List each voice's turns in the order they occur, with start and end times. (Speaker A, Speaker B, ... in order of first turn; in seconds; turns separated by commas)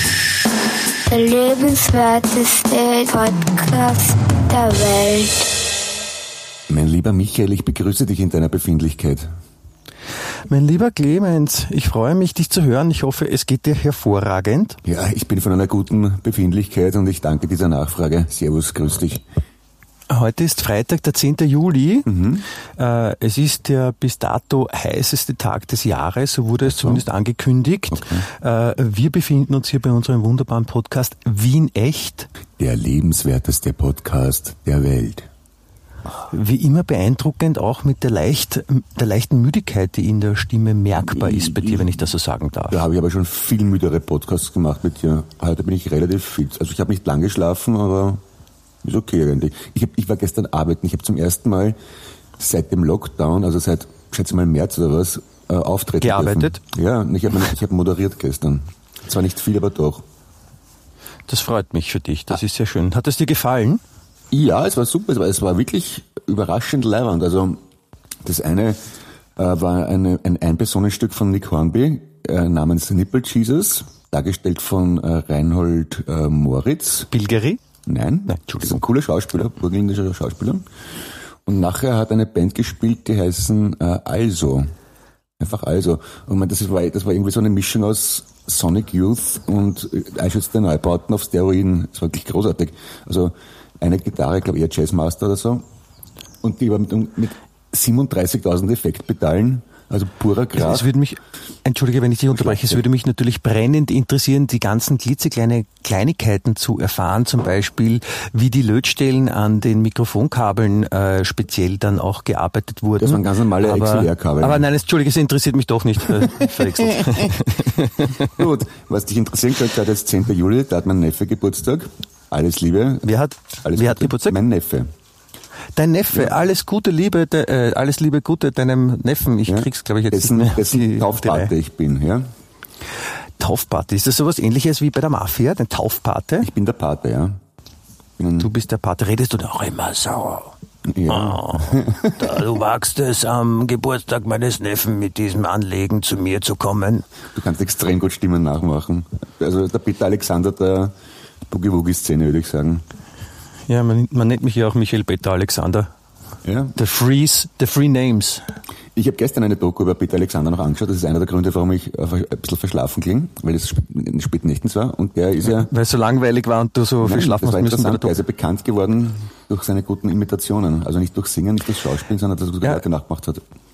Speaker A: 1.1-5.5, Speaker B: 6.7-9.3, Speaker C: 10.5-14.8, Speaker B: 14.8-19.2, Speaker C: 20.1-22.1, Speaker B: 22.1-22.5, Speaker C: 22.8-32.3, Speaker B: 26.6-27.0, Speaker B: 27.9-28.3, Speaker B: 32.6-35.3, Speaker C: 36.3-42.8, Speaker B: 41.0-42.0, Speaker B: 42.7-48.2, Speaker B: 48.8-51.8, Speaker B: 52.4-60.0, Speaker C: 56.0-56.6, Speaker C: 61.3-63.8, Speaker B: 64.3-67.6, Speaker B: 68.2-77.1, Speaker C: 77.1-77.6, Speaker B: 77.9-80.6, Speaker C: 78.3-78.8, Speaker B: 81.5-84.7, Speaker B: 85.4-95.6, Speaker B: 96.4-100.9, Speaker C: 100.6-118.4, Speaker B: 102.3-102.8, Speaker B: 113.0-114.7, Speaker B: 116.1-117.5, Speaker B: 118.1-123.1, Speaker C: 123.0-124.4, Speaker B: 123.6-124.9, Speaker C: 125.8-131.5, Speaker B: 129.5-132.3, Speaker C: 133.4-136.5, Speaker B: 136.4-137.4, Speaker B: 138.2-138.5, Speaker C: 138.4-140.5, Speaker B: 140.9-142.4, Speaker C: 141.1-147.1, Speaker B: 147.3-150.9, Speaker B: 151.5-152.8, Speaker C: 153.7-155.9, Speaker B: 156.4-156.8, Speaker C: 156.8-158.4, Speaker B: 158.9-165.7, Speaker C: 165.4-168.2, Speaker B: 167.0-173.4